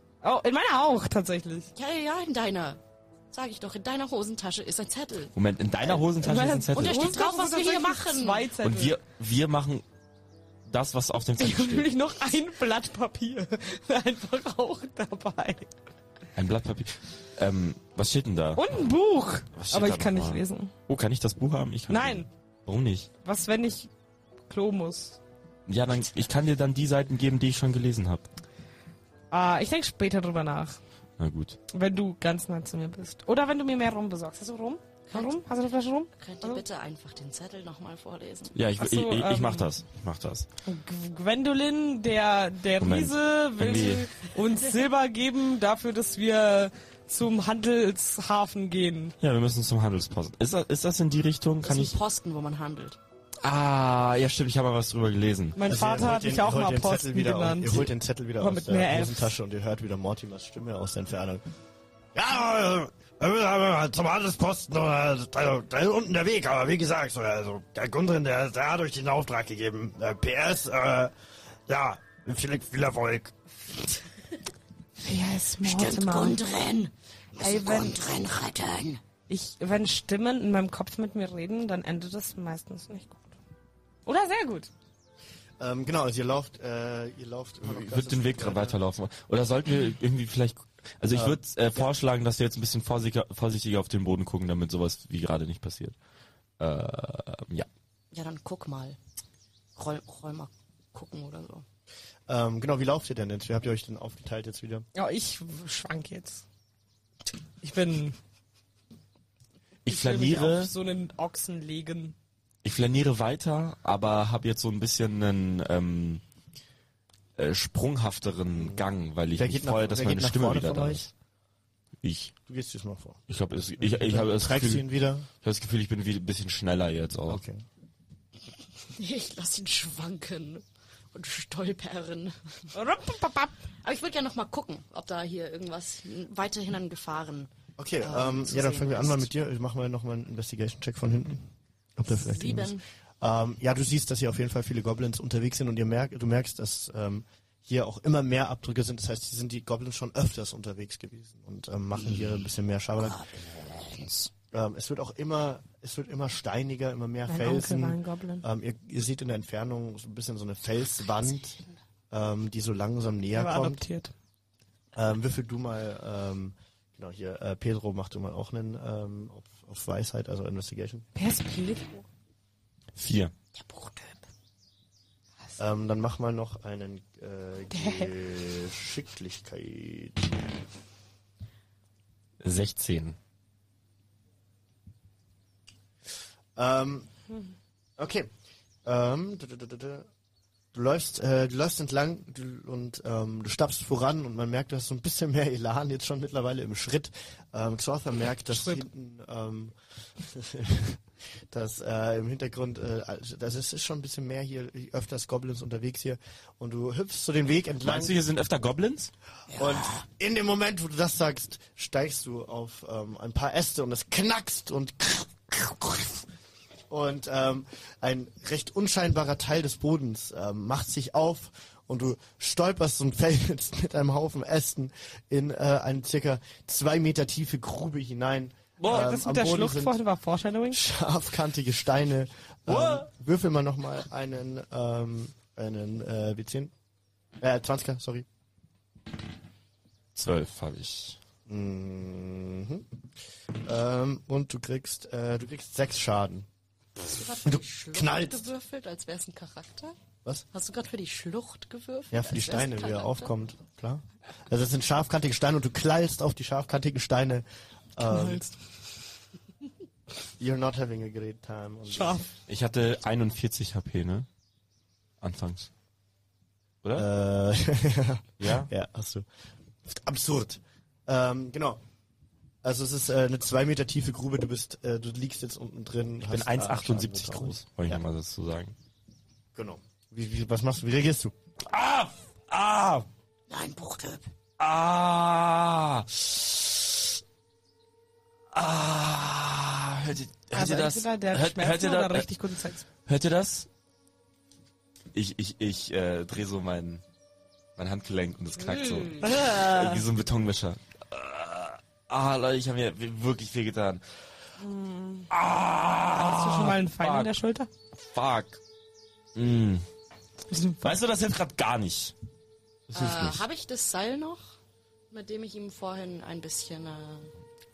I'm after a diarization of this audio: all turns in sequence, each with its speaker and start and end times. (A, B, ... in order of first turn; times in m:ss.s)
0:00.2-0:01.7 A
0:01.7-0:02.8 B
0:03.3-0:05.3 B
0:05.3-0:07.2 C
0:06.2-0:09.0 A
0:06.7-0:08.4 B
0:08.6-0:09.8 C
0:10.7-0:11.9 C
0:11.4-0:15.7 A
0:16.4-0:18.6 C
0:18.6-0:20.7 A
0:19.6-0:23.1 C
0:21.9-0:22.3 A
0:23.2-0:23.9 A
0:24.5-0:25.2 A
0:25.7-0:28.3 C
0:29.3-0:30.8 A
0:31.2-0:31.6 C
0:31.7-0:36.6 A
0:35.1-0:35.4 B
0:36.2-0:38.6 B
0:38.5-0:40.5 C
0:38.8-0:39.7 A
0:40.6-0:49.2 A
0:42.8-0:44.1 C
0:49.2-0:52.0 C
0:51.6-0:53.0 B
0:53.4-0:55.6 C
0:55.6-0:59.3 A
0:55.6-1:01.4 D
1:02.1-1:11.1 D
1:11.7-1:13.3 D
1:15.0-1:16.4 A
1:15.6-1:19.0 E
1:17.4-1:18.0 A
1:19.3-1:23.3 A
1:24.0-1:24.7 A
1:25.6-1:28.8 D
1:27.6-1:36.0 C
1:31.1-1:31.8 D
1:36.6-1:37.7 C
1:38.1-1:39.0 B
1:39.8-1:41.6 B
1:42.3-1:44.8 D
1:44.9-1:46.4 A
1:47.6-1:48.2 A
1:49.8-1:50.7 C
1:49.8-1:52.1 A
1:52.6-1:56.2 C
1:57.4-2:01.1 C
1:58.5-2:01.1 D
2:02.0-2:02.3 C
2:02.5-2:03.2 D
2:03.3-2:07.4 C
2:03.8-2:05.3 D
2:07.3-2:07.6 D
2:08.9-2:12.7 B
2:12.7-2:13.6 A
2:13.8-2:19.3 B
2:17.8-2:33.2 D
2:22.1-2:22.8 B
2:33.0-2:34.3 E
2:34.5-2:41.6 D
2:37.3-2:38.4 A
2:42.1-2:43.8 D
2:43.3-2:44.1 A
2:45.0-2:51.0 D
2:51.1-2:52.1 A
2:52.9-2:53.3 C
2:53.5-2:54.2 E
2:55.6-3:00.4 D
2:57.7-2:58.1 A
3:02.4-3:03.2 C
3:06.6-3:07.1 D
3:08.0-3:08.3 D
3:08.8-3:10.1 D
3:10.7-3:28.2 D
3:18.5-3:18.8 A
3:27.8-3:29.1 C
3:29.5-3:30.0 E
3:29.5-3:36.2 D
3:36.9-3:50.0 D
3:48.8-3:49.1 C
3:48.8-3:50.8 A
3:50.7-3:56.7 D
3:52.7-3:53.1 C
3:57.4-3:58.2 D
4:00.1-4:01.2 C
4:01.5-4:02.9 D
4:03.6-4:06.5 D
4:07.1-4:10.0 B
4:07.4-4:08.5 D
4:10.5-4:13.3 B
4:12.1-4:17.4 D
4:18.0-4:18.4 D
4:18.0-4:18.6 A
4:20.4-4:22.2 D
4:21.9-4:22.3 A
4:22.5-4:24.3 C
4:25.2-4:25.7 C
4:26.8-4:27.1 C
4:26.9-4:29.2 D
4:28.4-4:28.7 C
4:29.8-4:31.8 D
4:32.6-4:38.0 D
4:36.2-4:38.7 C
4:39.5-4:41.3 D
4:41.6-4:43.0 C
4:43.5-4:44.3 E
4:44.6-4:47.1 C
4:48.5-4:52.3 C
4:50.5-4:52.8 A
4:53.0-4:53.7 C
4:55.1-4:57.0 C
4:57.8-5:04.0 C
4:58.8-4:59.1 B
4:59.2-5:00.0 A
5:04.6-5:05.3 A
5:05.3-5:07.3 C
5:06.1-5:07.7 A
5:07.9-5:08.6 C
5:09.3-5:09.8 C
5:10.5-5:11.0 A
5:10.8-5:12.1 C
5:12.9-5:13.4 C
5:12.9-5:14.5 B
5:15.1-5:17.3 B